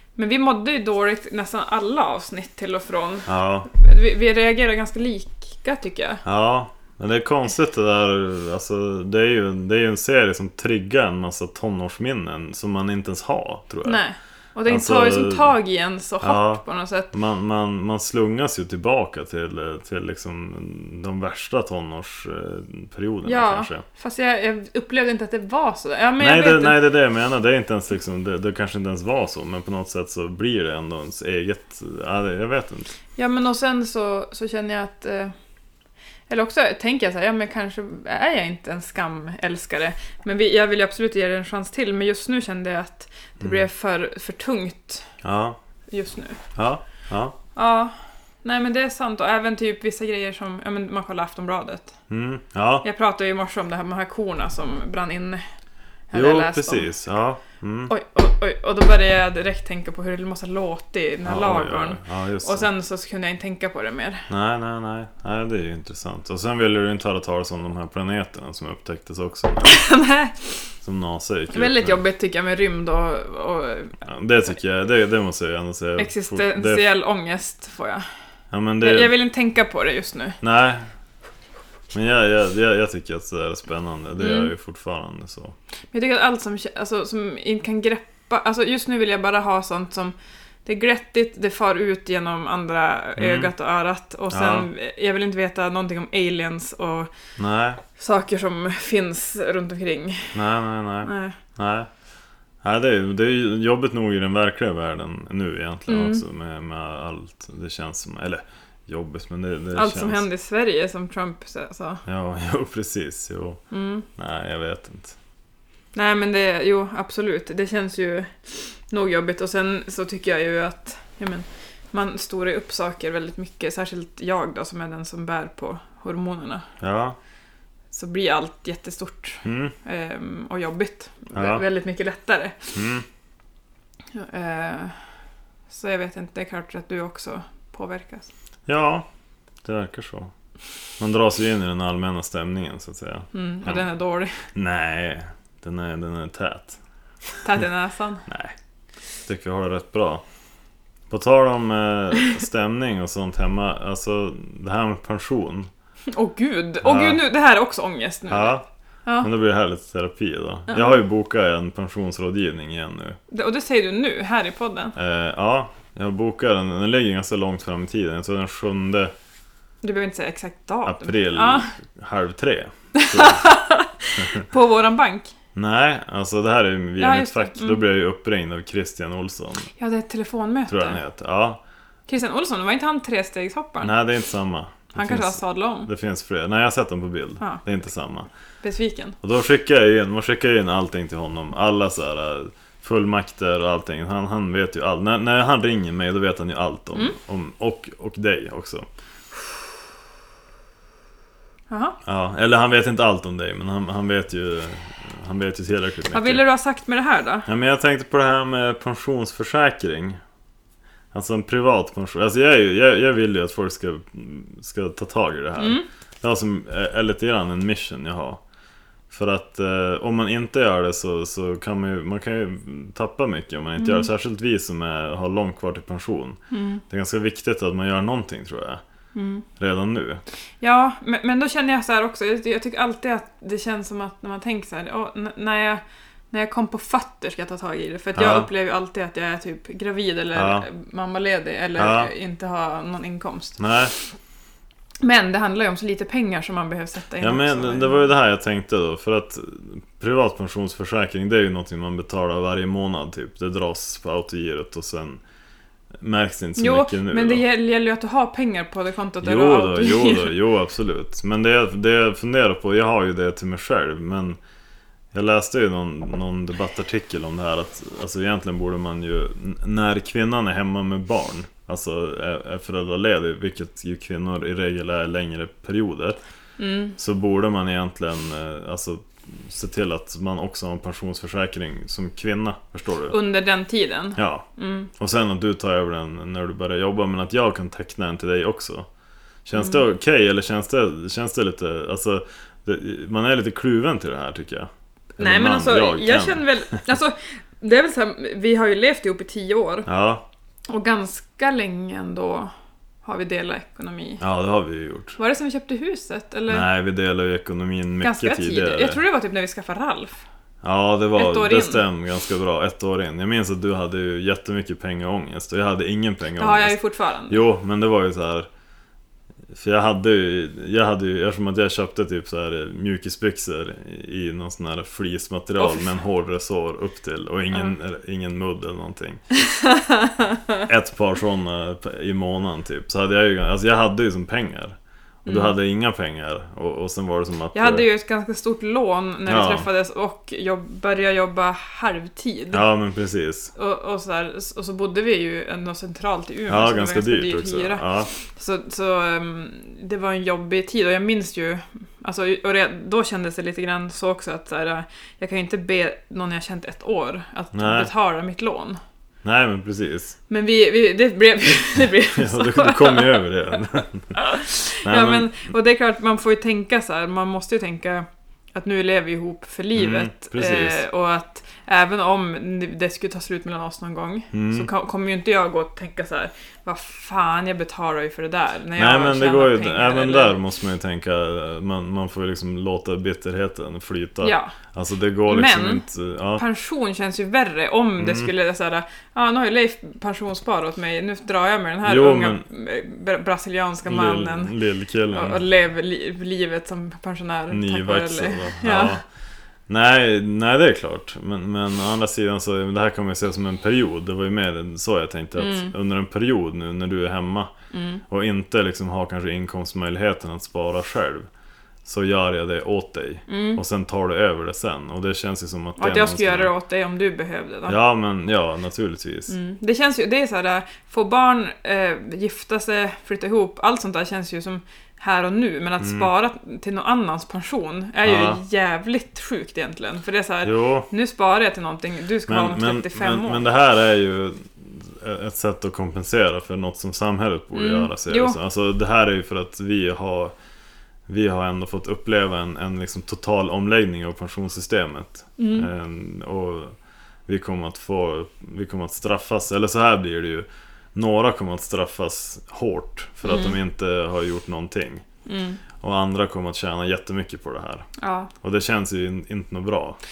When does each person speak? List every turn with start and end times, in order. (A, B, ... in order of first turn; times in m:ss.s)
0:00.2-0:06.2 A
0:03.3-0:03.7 B
0:06.2-0:14.0 B
0:13.8-0:17.1 A
0:14.7-0:15.5 B
0:16.2-0:23.8 B
0:23.2-0:26.8 A
0:26.2-0:32.9 B
0:33.2-0:35.3 A
0:36.3-0:45.1 A
0:45.2-0:45.6 B
0:45.9-0:46.4 A
0:46.5-0:47.4 B
0:47.5-0:51.9 A
0:52.1-0:52.8 B
0:52.8-0:55.4 A
0:56.1-0:56.9 A
0:56.1-0:57.9 B
0:57.9-1:04.3 A
1:01.2-1:02.7 B
1:04.3-1:09.8 B
1:09.6-1:10.6 A
1:10.8-1:12.0 B
1:11.5-1:14.0 A
1:14.0-1:16.9 B
1:16.0-1:18.0 A
1:18.5-1:19.1 B
1:18.8-1:20.4 A
1:20.4-1:20.9 B
1:21.9-1:25.5 B
1:24.2-1:24.5 A
1:25.9-1:37.1 A
1:33.2-1:33.5 B
1:34.3-1:34.7 B
1:37.4-1:37.8 B
1:38.0-1:40.4 A
1:40.3-1:41.9 B
1:41.0-1:41.4 A
1:42.6-1:50.2 B
1:45.9-1:46.2 A
1:49.7-1:52.0 A
1:52.0-1:53.6 B
1:53.7-1:54.0 A
1:54.2-1:55.2 B
1:55.9-2:06.7 A
2:06.8-2:07.2 B
2:07.9-2:12.7 A
2:09.4-2:09.7 B
2:11.3-2:11.6 B
2:12.7-2:13.0 B
2:14.1-2:15.0 A
2:15.7-2:18.3 A
2:18.7-2:19.1 B
2:19.6-2:20.3 B
2:21.0-2:23.8 B
2:23.3-2:24.4 A
2:24.5-2:26.8 B
2:27.4-2:28.2 A
2:28.3-2:28.5 B
2:29.2-2:30.2 B
2:31.1-2:35.7 B
2:36.1-2:39.3 A
2:36.8-2:37.2 B
2:38.3-2:38.6 B
2:39.2-2:43.2 B
2:40.7-2:41.0 A
2:43.3-2:44.9 A
2:45.0-2:49.1 B
2:49.8-2:51.7 A
2:50.8-2:53.4 B
2:52.9-2:55.3 A
2:55.5-2:59.7 B
2:57.0-2:57.8 A
2:59.8-3:01.0 A
3:00.7-3:01.6 B
3:02.1-3:03.9 A
3:03.8-3:08.3 B
3:04.9-3:05.9 A
3:08.6-3:09.2 A
3:09.2-3:18.9 B
3:21.7-3:22.0 A
3:22.0-3:26.4 B
3:26.1-3:27.5 A
3:27.4-3:30.2 B
3:31.1-3:38.4 B
3:35.6-3:35.8 A
3:39.1-3:48.8 B
3:43.8-3:44.1 A
3:46.5-3:46.8 A
3:49.1-3:49.4 A
3:49.6-3:50.2 B
3:50.6-4:03.6 A
3:58.1-3:58.5 B
4:00.3-4:00.7 B
4:01.8-4:02.1 B
4:03.6-4:03.9 B
4:05.0-4:08.1 A
4:07.2-4:15.2 B
4:16.0-4:17.4 B
4:16.6-4:20.3 A
4:19.2-4:24.4 B
4:25.1-4:36.2 B
4:36.6-4:37.0 A
4:37.0-4:43.2 B
4:43.1-4:44.9 A
4:44.2-4:44.4 B
4:45.0-4:48.9 B
4:49.4-4:56.8 B
4:49.6-4:49.8 A
4:55.2-4:59.9 A
4:59.8-5:00.2 B
5:00.7-5:02.5 A
5:03.0-5:04.2 A
5:04.2-5:05.2 B
5:05.2-5:06.7 A
5:06.5-5:09.0 B
5:08.0-5:10.2 A
5:10.6-5:16.8 B
5:11.2-5:11.8 A
5:16.4-5:17.4 A
5:17.3-5:18.5 B
5:19.5-5:29.2 B
5:25.6-5:25.9 A
5:29.4-5:30.6 A
5:30.6-5:37.8 B
5:35.2-5:35.5 A
5:37.5-5:42.6 A
5:39.2-5:39.7 B
5:42.5-5:43.5 B
5:43.5-5:58.8 A
5:46.5-5:48.1 B
5:57.5-5:57.9 B
5:59.2-6:00.2 B
6:00.3-6:03.5 A
6:02.1-6:04.2 B
6:04.1-6:20.4 A
6:04.8-6:05.3 B
6:09.7-6:10.8 B
6:14.3-6:14.7 B
6:18.8-6:26.4 B
6:24.2-6:24.5 A
6:25.3-6:25.8 A
6:26.4-6:34.5 A
6:28.0-6:28.3 B
6:31.8-6:32.4 B
6:33.8-6:35.4 B
6:35.1-6:39.0 A
6:37.5-6:39.0 B
6:39.7-6:47.5 B
6:45.4-6:45.7 A
6:47.7-6:48.0 A
6:48.1-6:51.3 B
6:51.8-6:56.5 B
6:53.3-6:53.6 A
6:55.8-6:57.8 A
6:57.7-6:59.4 B
6:59.3-7:13.4 A
7:05.8-7:06.1 B
7:08.0-7:08.4 B
7:10.4-7:10.9 B
7:12.3-7:20.3 B
7:17.5-7:18.4 A
7:21.1-7:26.8 B
7:25.4-7:25.7 A
7:27.3-7:35.0 B
7:33.2-7:33.6 A
7:35.2-7:35.6 A
7:35.8-7:37.9 B
7:38.0-7:38.3 A
7:38.4-7:40.0 B